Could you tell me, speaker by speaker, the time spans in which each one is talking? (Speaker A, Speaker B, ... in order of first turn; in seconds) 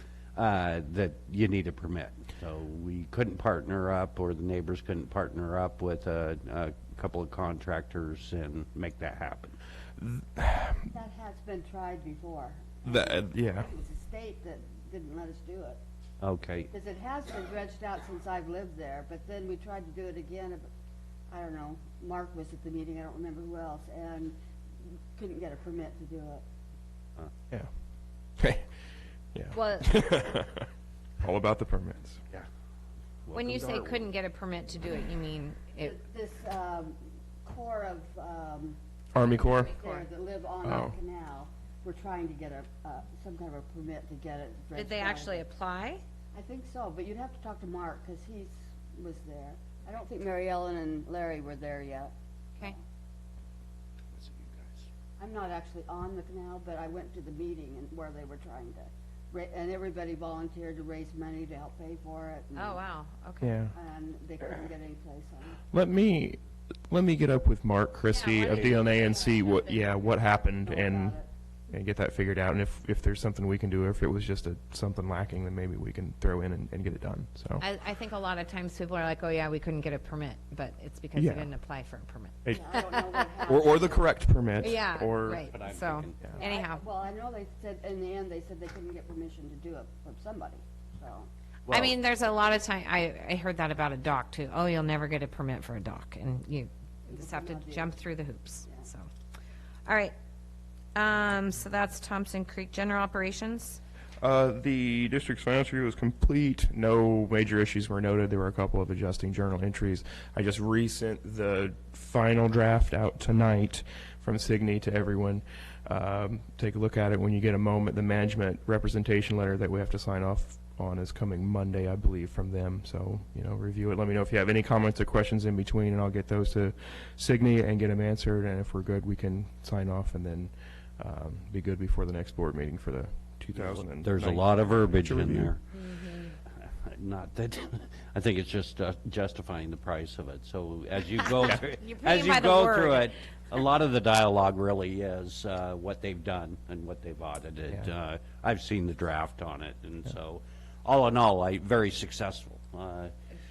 Speaker A: 0.3-9.6, 16.2-16.7, 33.2-34.1, 54.1-54.9, 85.3-86.3, 91.7-92.0, 133.5-135.6, 136.6-153.1
Speaker B: 10.0-10.9, 12.8-13.7, 28.4-28.7, 29.3-30.7, 31.2-32.2, 39.1-39.7, 40.6-41.0, 63.4-63.7, 65.7-71.2, 71.7-77.6, 81.2-81.5, 83.4-85.5, 104.2-135.5
Speaker C: 10.9-15.8, 16.7-20.7, 21.3-26.4, 35.8-38.8, 39.8-45.4, 46.3-52.8, 55.2-62.9, 63.7-65.6, 70.6-71.3, 82.5-84.1, 86.3-91.3, 97.1-98.0
Speaker D: 29.5-30.2, 33.3-36.0, 39.5-40.1, 44.8-46.0, 62.5-63.6, 68.1-70.1, 77.6-83.4, 84.6-86.8, 91.7-99.1, 99.9-100.1, 101.0-103.8, 135.8-136.3, 141.8-143.1